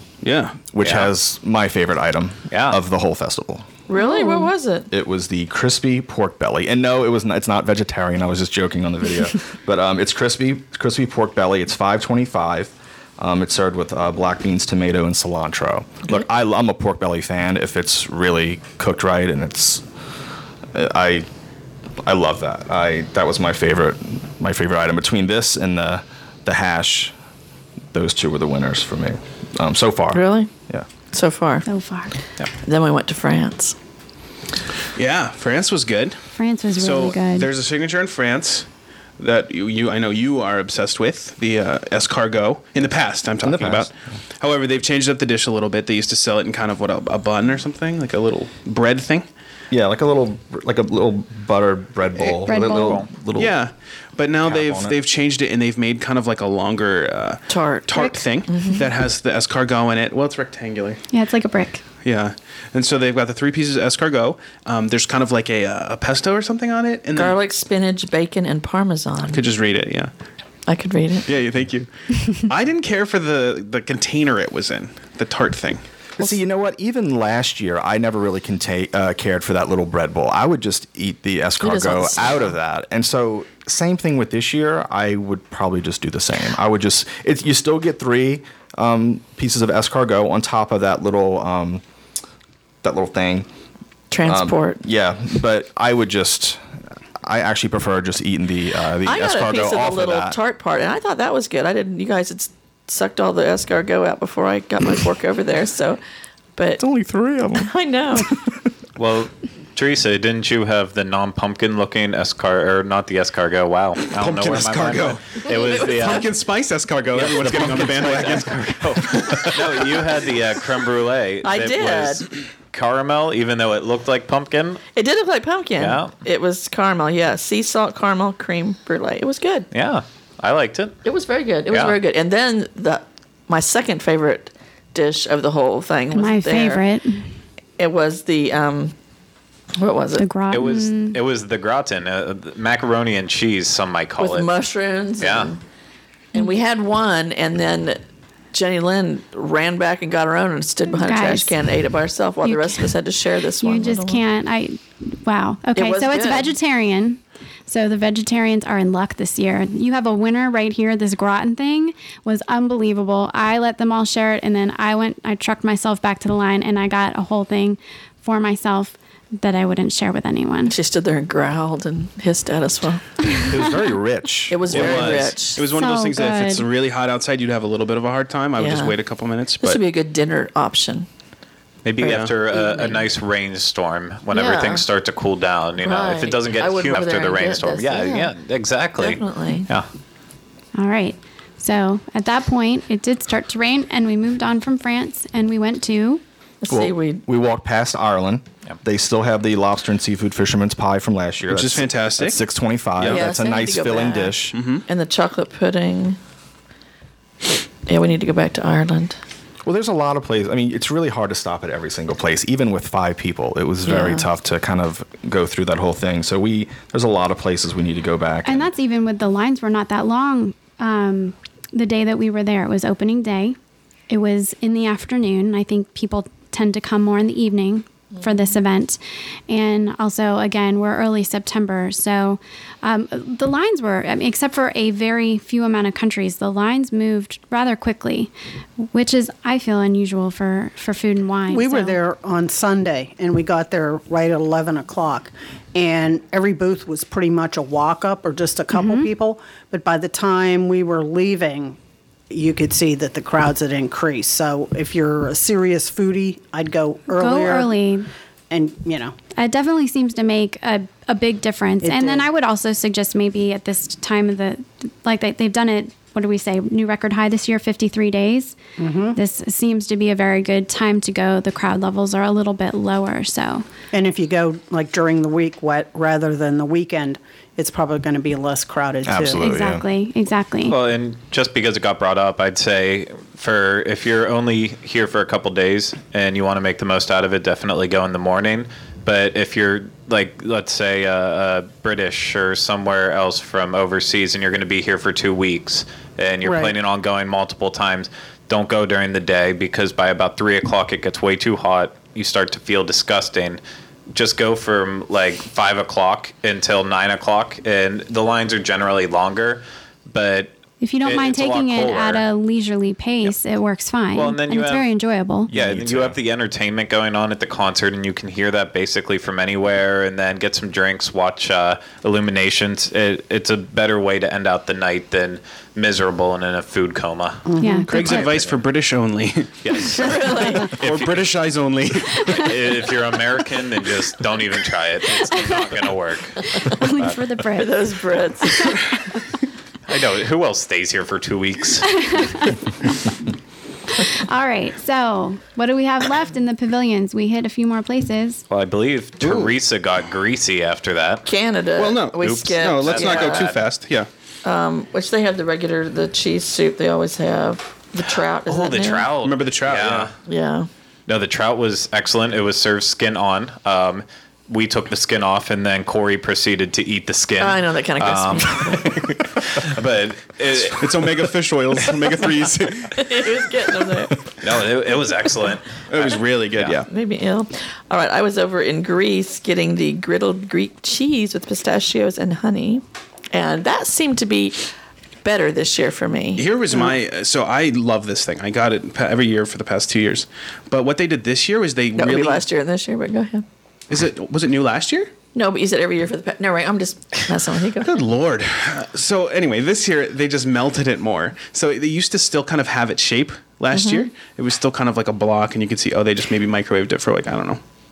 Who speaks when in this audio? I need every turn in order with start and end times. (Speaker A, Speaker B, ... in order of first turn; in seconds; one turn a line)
Speaker A: 0.2-0.6
Speaker B: 0.7-3.7
Speaker C: 0.8-1.1
Speaker C: 2.5-2.8
Speaker D: 3.9-4.9
Speaker E: 4.1-4.3
Speaker B: 4.9-19.8
Speaker B: 20.7-21.3
Speaker B: 22.0-27.1
Speaker B: 27.9-30.9
Speaker D: 30.1-30.5
Speaker D: 31.1-31.6
Speaker E: 31.6-32.1
Speaker D: 32.6-33.8
Speaker A: 35.0-36.2
Speaker E: 36.3-37.5
Speaker A: 36.7-38.7
Speaker A: 39.2-49.2
Speaker B: 43.4-43.9
Speaker B: 49.7-53.5
Speaker E: 52.4-53.0
Speaker C: 52.6-53.1
Speaker A: 53.3-61.0
Speaker B: 54.4-55.0
Speaker D: 57.5-58.9
Speaker E: 61.1-61.8
Speaker A: 62.0-67.4
Speaker D: 67.1-69.4
Speaker A: 69.2-70.1
Speaker D: 70.7-71.3
Speaker A: 71.2-75.8
Speaker B: 76.2-91.8
Speaker D: 81.6-82.5
Speaker B: 92.8-93.5
Speaker D: 94.1-94.8
Speaker B: 94.2-96.6
Speaker B: 97.2-100.4
Speaker D: 99.0-106.0
Speaker D: 106.5-106.8
Speaker B: 106.8-107.7
Speaker D: 107.5-108.4
Speaker C: 109.0-116.3
Speaker A: 114.1-120.0
Speaker D: 115.4-116.3
Speaker C: 117.1-124.8
Speaker D: 121.4-122.2
Speaker D: 124.9-129.7
Speaker C: 125.8-126.1
Speaker C: 129.7-131.0
Speaker D: 131.0-136.8
Speaker C: 131.7-131.9
Speaker E: 136.1-137.3
Speaker D: 137.8-138.9
Speaker D: 139.8-140.2
Speaker E: 140.2-141.2
Speaker C: 140.5-144.5
Speaker D: 144.2-145.6
Speaker C: 145.2-145.5
Speaker D: 146.3-148.0
Speaker D: 148.5-154.2
Speaker E: 150.9-151.6
Speaker E: 152.4-152.9
Speaker E: 153.6-170.7
Speaker D: 155.7-156.5
Speaker D: 170.7-173.0
Speaker B: 173.5-175.3
Speaker D: 174.5-175.6
Speaker A: 174.7-179.8
Speaker E: 175.7-176.7
Speaker D: 178.6-178.9
Speaker D: 179.6-181.1
Speaker C: 181.8-189.9
Speaker A: 182.0-182.3
Speaker D: 182.5-183.0
Speaker D: 184.3-184.8
Speaker D: 185.8-188.3
Speaker D: 189.0-189.7
Speaker E: 190.7-196.2
Speaker D: 196.6-197.2
Speaker B: 196.7-204.6
Speaker A: 201.5-202.4
Speaker A: 203.0-203.3
Speaker D: 203.0-206.2
Speaker A: 204.5-204.8
Speaker D: 207.8-209.2
Speaker B: 209.6-218.7
Speaker D: 213.8-214.2
Speaker E: 218.4-223.6
Speaker E: 224.1-242.0
Speaker F: 241.5-251.8
Speaker E: 248.7-249.1
Speaker F: 252.3-257.8
Speaker E: 257.1-258.1
Speaker F: 258.5-259.1
Speaker E: 259.3-268.6
Speaker F: 261.8-262.3
Speaker F: 268.8-269.2
Speaker E: 269.1-273.6
Speaker F: 273.9-279.4
Speaker B: 279.0-279.9
Speaker E: 279.4-280.8
Speaker C: 280.7-303.6
Speaker F: 296.4-296.7
Speaker C: 304.1-312.2
Speaker E: 310.8-315.5
Speaker C: 314.1-314.9
Speaker C: 315.5-328.6
Speaker B: 315.5-316.2
Speaker F: 327.5-328.1
Speaker E: 327.6-328.2
Speaker A: 327.9-332.6
Speaker C: 329.6-331.2
Speaker D: 329.9-330.8
Speaker C: 332.2-337.2
Speaker E: 335.3-335.6
Speaker E: 336.5-337.9
Speaker D: 337.5-338.8
Speaker E: 338.4-338.9
Speaker C: 339.9-342.2
Speaker E: 341.9-342.6
Speaker E: 343.9-348.4
Speaker C: 348.5-351.2
Speaker A: 349.2-349.5
Speaker D: 351.2-353.6
Speaker A: 351.8-354.1
Speaker C: 352.2-353.6
Speaker D: 354.4-359.1
Speaker C: 358.5-360.1
Speaker A: 359.1-360.1
Speaker D: 360.2-360.7
Speaker C: 361.1-371.1
Speaker D: 367.4-369.1
Speaker A: 370.6-373.5
Speaker D: 372.9-374.1
Speaker C: 374.4-375.9
Speaker A: 375.9-376.9
Speaker D: 376.7-384.6
Speaker D: 385.2-386.5
Speaker A: 386.3-392.4
Speaker D: 391.9-393.4
Speaker A: 393.9-395.1
Speaker D: 395.3-398.0
Speaker A: 397.8-407.6
Speaker D: 403.7-404.1